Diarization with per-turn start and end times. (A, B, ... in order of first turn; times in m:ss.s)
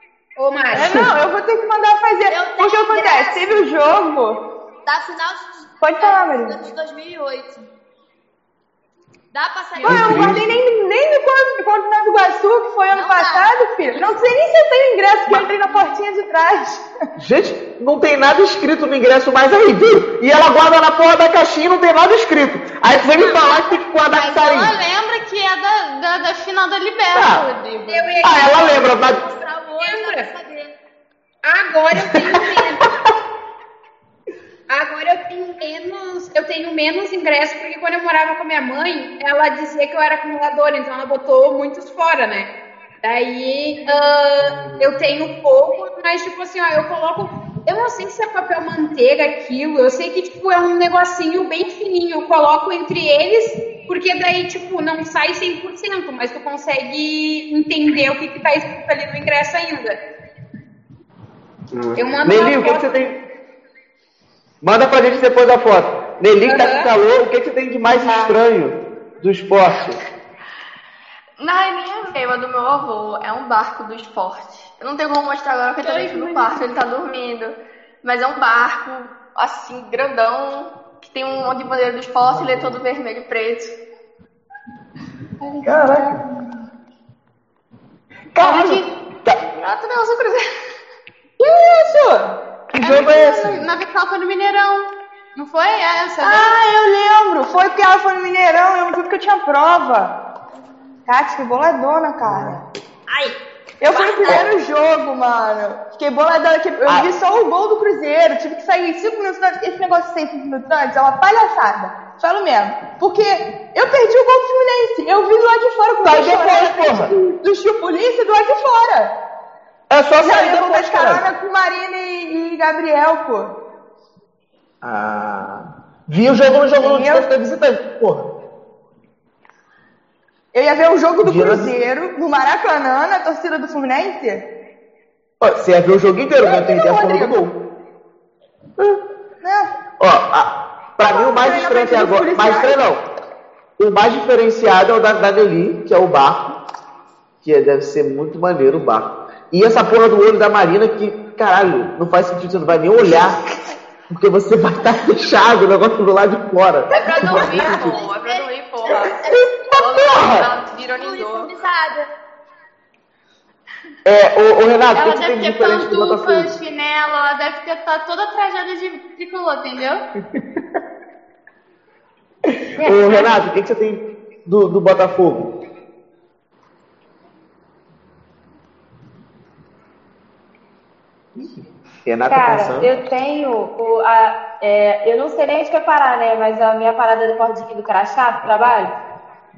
0:00.4-0:01.0 A
0:00.7-0:04.4 B
0:02.3-0:03.6 C
0:04.8-0:07.7 C
0:05.8-0:06.5 B
0:09.3-0:10.5 C
0:09.8-0:10.3 D
0:09.8-0:16.9 B
0:09.8-0:10.5 E
0:12.9-0:14.2 C
0:15.3-0:15.8 D
0:17.2-0:24.7 E
0:23.1-0:24.8 C
0:24.3-0:28.2 D
0:27.1-0:27.4 E
0:27.9-0:29.0 A
0:28.2-0:29.2 E
0:28.4-0:30.7 C
0:29.8-0:30.3 A
0:31.4-0:32.9 A
0:32.1-0:32.6 E
0:34.7-0:42.5 A
0:43.0-1:00.0 A
1:01.7-1:03.2 E
1:02.0-1:03.0 A
1:04.6-1:10.0 E
1:06.4-1:06.9 A
1:11.4-1:23.8 F
1:15.8-1:16.5 D
1:22.2-1:22.8 E
1:25.4-1:26.2 D
1:25.6-1:26.1 E
1:28.3-1:29.4 E
1:28.4-1:28.9 D
1:29.4-1:30.4 F
1:31.4-1:32.4 B
1:32.7-1:33.6 E
1:32.8-1:36.6 D
1:36.2-1:40.1 B
1:41.1-1:42.6 B
1:42.2-1:42.6 E
1:43.1-1:44.5 C
1:43.8-1:59.1 B
1:56.0-1:57.2 E
1:59.9-2:01.2 E
2:00.2-2:03.5 B
2:04.8-2:08.3 E
2:06.8-2:07.2 B
2:10.5-2:14.4 B
2:11.2-2:11.7 E
2:15.4-2:17.5 E
2:16.4-2:17.4 B
2:19.4-2:19.7 B
2:20.0-2:23.0 E
2:21.0-2:22.8 B
2:23.8-2:26.4 E
2:27.4-2:33.4 E
2:34.1-2:37.9 E
2:36.9-2:41.5 F
2:37.1-2:42.1 C
2:39.7-2:40.5 E
2:44.0-2:46.5 E
2:44.9-2:50.0 D
2:52.8-2:53.3 G
2:52.8-2:55.5 E
3:02.0-3:02.9 E
3:02.3-3:08.9 G